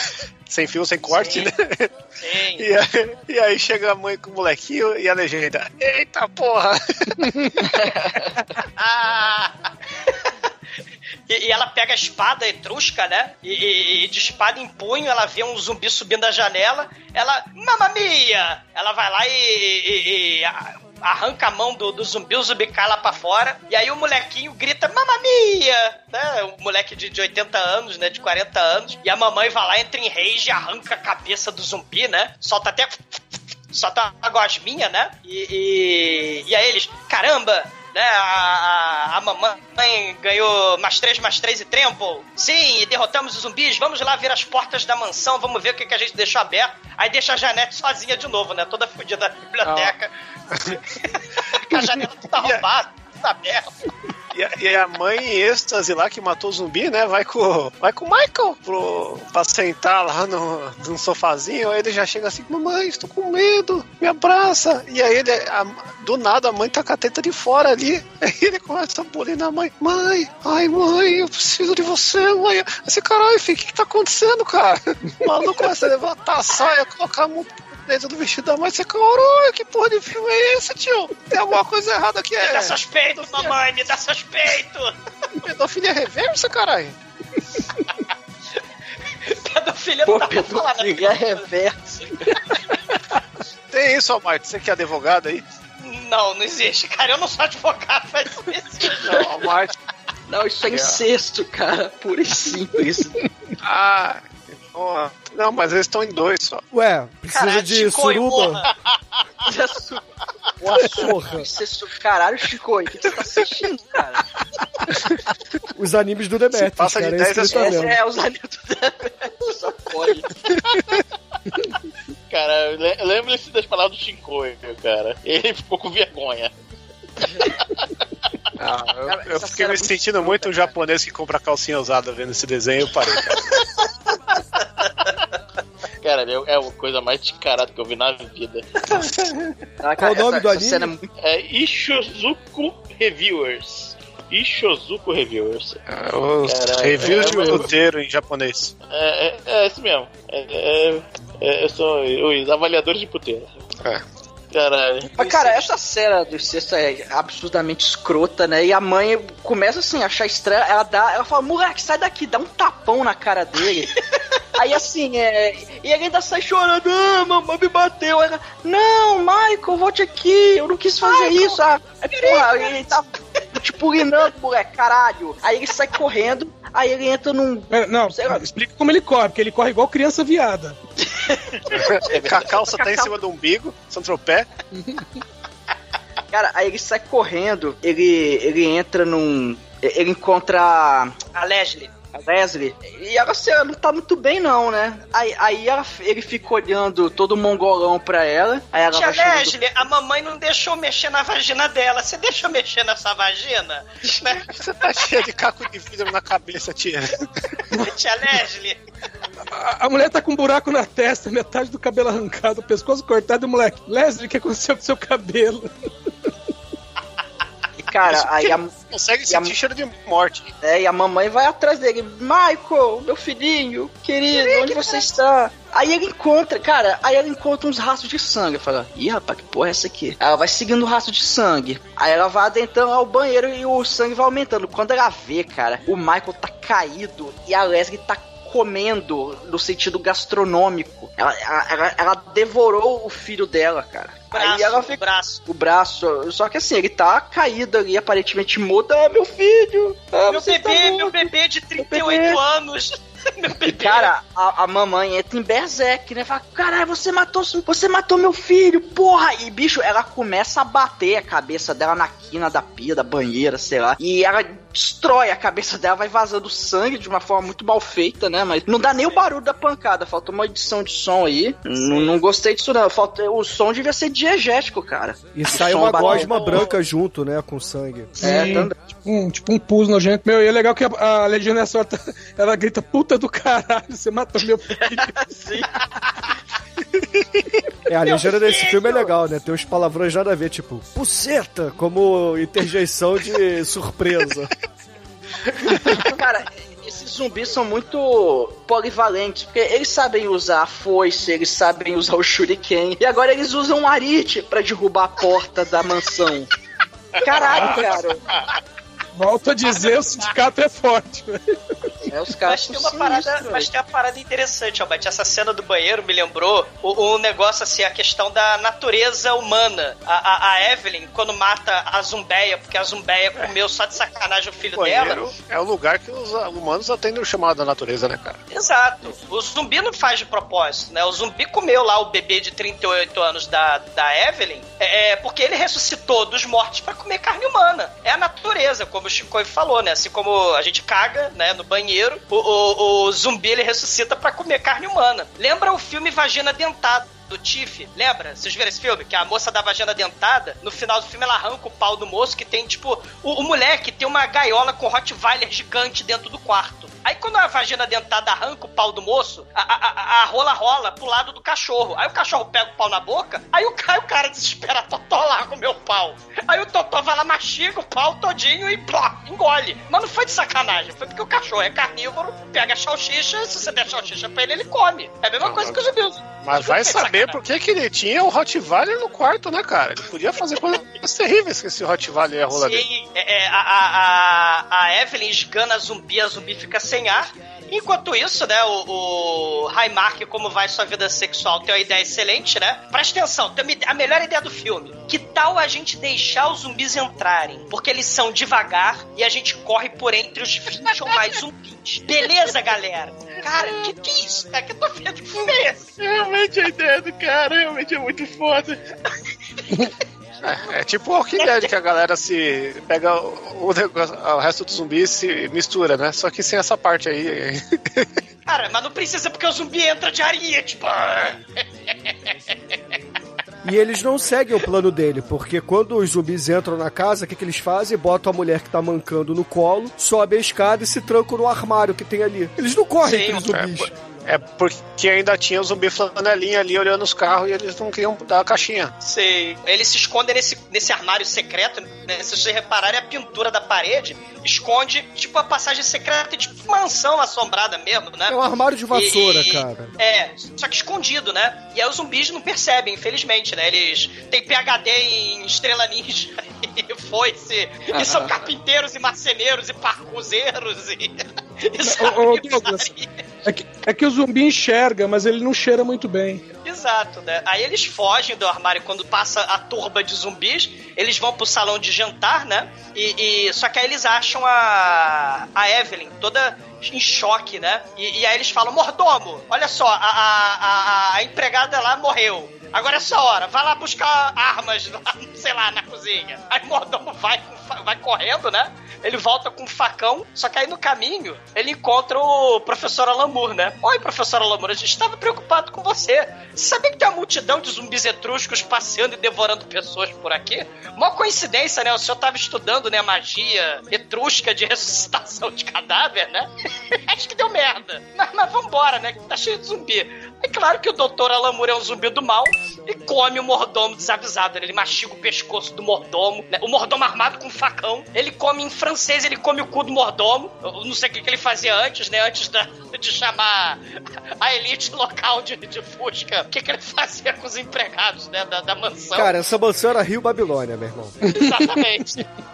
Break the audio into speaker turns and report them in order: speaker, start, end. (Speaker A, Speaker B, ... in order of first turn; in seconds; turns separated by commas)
Speaker A: 0.5-1.9, Speaker B: 1.1-1.5, Speaker B: 2.2-2.7, Speaker A: 2.6-7.7, Speaker B: 8.8-9.5, Speaker B: 11.3-33.2, Speaker B: 33.7-50.1, Speaker A: 49.6-49.9, Speaker A: 50.5-50.8, Speaker B: 51.5-53.7, Speaker A: 54.3-83.5, Speaker B: 82.4-84.9, Speaker A: 85.4-87.0, Speaker B: 89.2-91.5, Speaker C: 90.0-91.8, Speaker A: 93.7-95.4, Speaker B: 95.8-99.2, Speaker A: 99.0-99.7, Speaker C: 100.3-103.1, Speaker A: 100.7-101.0, Speaker A: 103.6-106.6, Speaker D: 106.7-108.6, Speaker B: 107.3-108.7, Speaker C: 109.5-110.0, Speaker C: 110.6-114.2, Speaker D: 110.8-111.5, Speaker D: 115.7-118.0, Speaker A: 116.5-117.9, Speaker C: 117.5-120.3, Speaker E: 122.3-126.5, Speaker A: 128.6-133.5, Speaker C: 129.1-130.7, Speaker E: 136.0-138.6, Speaker C: 139.8-141.1, Speaker D: 140.0-140.9, Speaker E: 141.2-145.8, Speaker A: 145.9-148.7, Speaker E: 146.4-147.7, Speaker E: 148.9-153.5, Speaker E: 154.5-155.5, Speaker C: 155.1-163.9, Speaker C: 164.6-178.4, Speaker B: 171.0-171.6, Speaker B: 172.1-173.0, Speaker F: 177.7-180.8, Speaker C: 181.1-183.2, Speaker A: 181.7-184.5, Speaker F: 184.7-185.0, Speaker C: 186.3-191.1, Speaker B: 191.3-191.9, Speaker C: 192.1-199.6, Speaker B: 198.9-204.6, Speaker A: 204.4-207.2, Speaker B: 207.7-208.8, Speaker F: 209.5-215.7, Speaker C: 217.8-218.7, Speaker A: 218.0-220.5, Speaker C: 219.3-219.5, Speaker C: 220.6-252.4, Speaker B: 224.3-225.2, Speaker B: 244.3-245.4, Speaker B: 250.3-254.1, Speaker C: 253.6-276.6, Speaker B: 268.8-269.3, Speaker B: 271.8-272.2, Speaker D: 275.3-278.1, Speaker C: 278.2-278.7, Speaker F: 278.2-285.2, Speaker D: 287.9-294.5, Speaker B: 288.0-289.1, Speaker C: 295.7-306.5, Speaker C: 307.2-308.2, Speaker A: 307.3-307.9, Speaker F: 309.1-311.5, Speaker B: 309.6-310.4, Speaker C: 312.1-313.7, Speaker B: 312.4-325.2, Speaker A: 324.8-328.4, Speaker B: 328.5-377.4, Speaker A: 375.4-375.8, Speaker A: 376.4-382.8, Speaker B: 382.5-405.8, Speaker E: 406.0-408.8, Speaker A: 410.4-418.1, Speaker B: 411.4-411.7, Speaker B: 418.5-421.4, Speaker D: 423.6-433.9, Speaker B: 433.0-433.5, Speaker A: 433.5-438.9, Speaker B: 439.0-448.4, Speaker D: 448.3-449.9, Speaker B: 448.9-463.1, Speaker F: 461.8-462.9, Speaker F: 463.4-466.4, Speaker B: 466.6-523.8, Speaker B: 524.4-529.3, Speaker D: 529.1-531.2, Speaker B: 531.2-532.2